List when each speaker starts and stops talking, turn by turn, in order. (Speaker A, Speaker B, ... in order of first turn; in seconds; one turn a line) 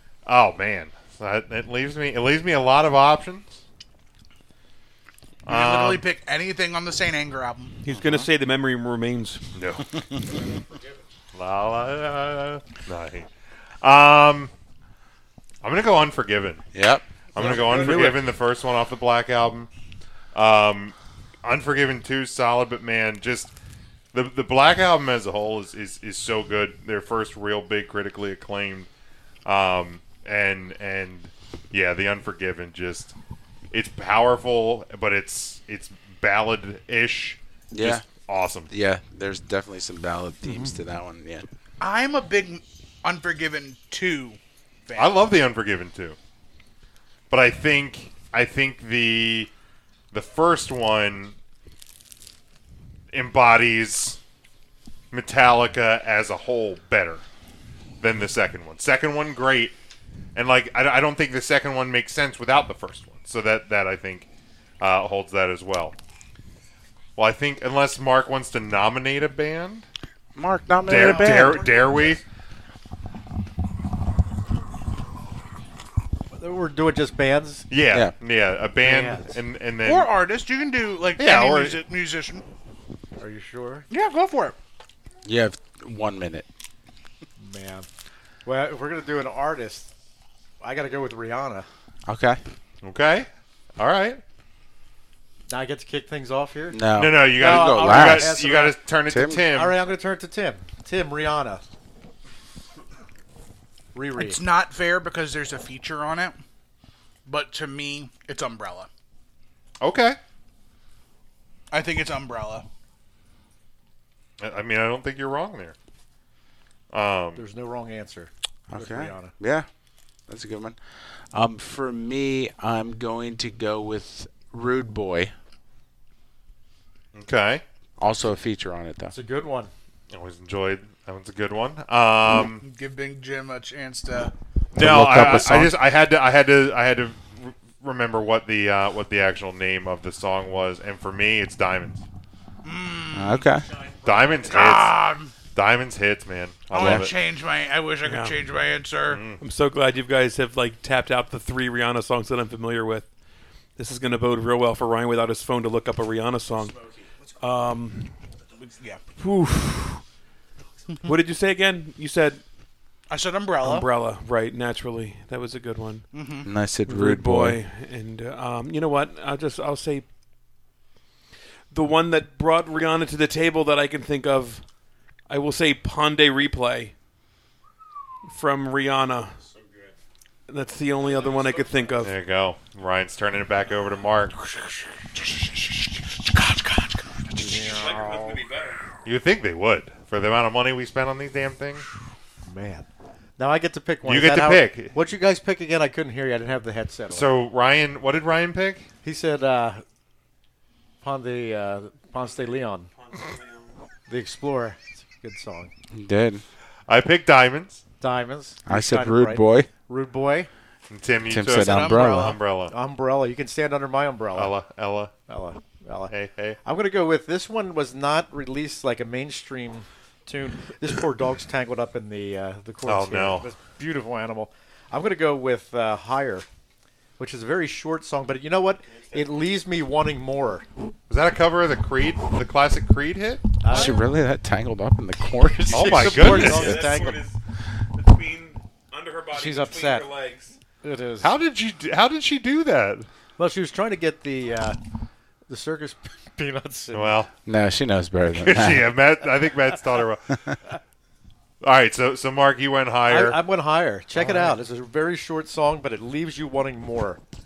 Speaker A: 0.3-3.6
Speaker A: 5.5-6.0
Speaker B: 5.5-7.7
Speaker C: 7.8-9.4
Speaker D: 7.9-8.3
Speaker A: 9.6-9.9
Speaker D: 9.9-10.4
Speaker A: 11.3-13.3
Speaker A: 13.8-14.5
Speaker A: 15.6-16.6
Speaker D: 16.7-18.0
Speaker A: 17.3-19.7
Speaker C: 17.4-18.2
Speaker A: 20.3-23.5
Speaker A: 24.1-28.9
Speaker A: 29.5-33.1
Speaker A: 33.7-38.7
Speaker D: 37.7-38.0
Speaker D: 38.7-41.5
Speaker B: 41.8-45.2
Speaker A: 45.0-46.2
Speaker A: 47.3-49.5
Speaker A: 50.1-51.4
Speaker A: 53.1-54.2
Speaker A: 55.1-57.2
Speaker A: 58.0-59.8
Speaker A: 60.4-64.3
Speaker A: 64.8-66.0
Speaker A: 67.2-69.9
Speaker D: 70.3-71.7
Speaker A: 70.9-72.2
Speaker E: 70.9-72.2
Speaker E: 76.3-77.7
Speaker A: 77.7-80.1
Speaker E: 78.8-79.4
Speaker B: 79.8-82.4
Speaker A: 81.2-81.8
Speaker E: 83.2-83.9
Speaker B: 83.9-84.6
Speaker D: 85.2-86.5
Speaker E: 87.4-87.9
Speaker E: 88.5-89.9
Speaker E: 90.6-91.7
Speaker D: 92.1-92.4
Speaker A: 92.8-94.2
Speaker E: 95.5-98.8
Speaker D: 96.7-98.4
Speaker A: 97.0-99.8
Speaker D: 99.1-99.5
Speaker E: 99.5-101.6
Speaker E: 103.9-104.4
Speaker B: 104.2-106.4
Speaker B: 107.3-108.9
Speaker A: 109.8-110.2
Speaker B: 111.7-112.7
Speaker A: 114.4-115.8
Speaker A: 116.9-117.4
Speaker E: 117.3-119.3
Speaker D: 118.7-119.7
Speaker D: 120.3-125.3
Speaker A: 127.1-127.6
Speaker D: 128.0-129.1
Speaker E: 129.1-129.7
Speaker A: 130.1-132.6
Speaker B: 132.6-134.3
Speaker A: 134.7-142.0
Speaker D: 134.8-135.8
Speaker B: 142.6-143.5
Speaker D: 143.1-143.7
Speaker A: 144.0-145.0
Speaker B: 144.4-145.3
Speaker A: 145.5-147.1
Speaker B: 146.7-149.2
Speaker D: 146.8-147.1
Speaker C: 148.1-148.4
Speaker A: 149.1-149.4
Speaker C: 149.4-153.1
Speaker C: 153.8-156.8
Speaker C: 157.3-158.2
Speaker B: 158.6-159.0
Speaker C: 159.2-160.0
Speaker C: 161.0-162.4
Speaker B: 163.1-163.9
Speaker C: 163.6-166.1
Speaker B: 166.1-166.5
Speaker D: 166.4-167.6
Speaker C: 166.9-170.1
Speaker C: 171.7-174.6
Speaker C: 175.3-176.9
Speaker C: 178.3-179.4
Speaker C: 180.5-182.1
Speaker A: 182.0-184.4
Speaker E: 187.3-188.4
Speaker C: 187.6-188.8
Speaker A: 189.1-191.8
Speaker E: 192.4-192.9
Speaker E: 193.4-197.3
Speaker A: 194.1-194.9
Speaker A: 197.1-198.9
Speaker E: 199.0-199.8
Speaker E: 201.0-202.9
Speaker C: 203.0-203.7
Speaker E: 204.1-205.7
Speaker D: 205.9-206.4
Speaker A: 206.9-207.8
Speaker E: 208.0-210.5
Speaker D: 208.7-209.7
Speaker A: 210.9-212.7
Speaker D: 211.3-212.4
Speaker B: 211.6-212.4
Speaker E: 212.7-214.6
Speaker A: 214.3-215.1
Speaker E: 215.3-216.1
Speaker A: 216.1-216.6
Speaker E: 216.6-226.5
Speaker A: 222.8-223.5
Speaker E: 227.2-230.7
Speaker A: 231.1-233.6
Speaker E: 233.6-234.0
Speaker D: 233.7-236.6
Speaker E: 235.6-237.2
Speaker A: 235.7-236.9
Speaker C: 236.2-237.4
Speaker C: 237.9-240.6
Speaker E: 239.3-240.1
Speaker E: 240.8-241.3
Speaker A: 241.2-243.1
Speaker E: 243.4-244.8
Speaker E: 245.5-247.2
Speaker A: 246.9-247.3
Speaker D: 247.5-248.9
Speaker A: 248.3-250.4
Speaker A: 251.6-253.4
Speaker E: 253.1-257.2
Speaker A: 254.2-254.6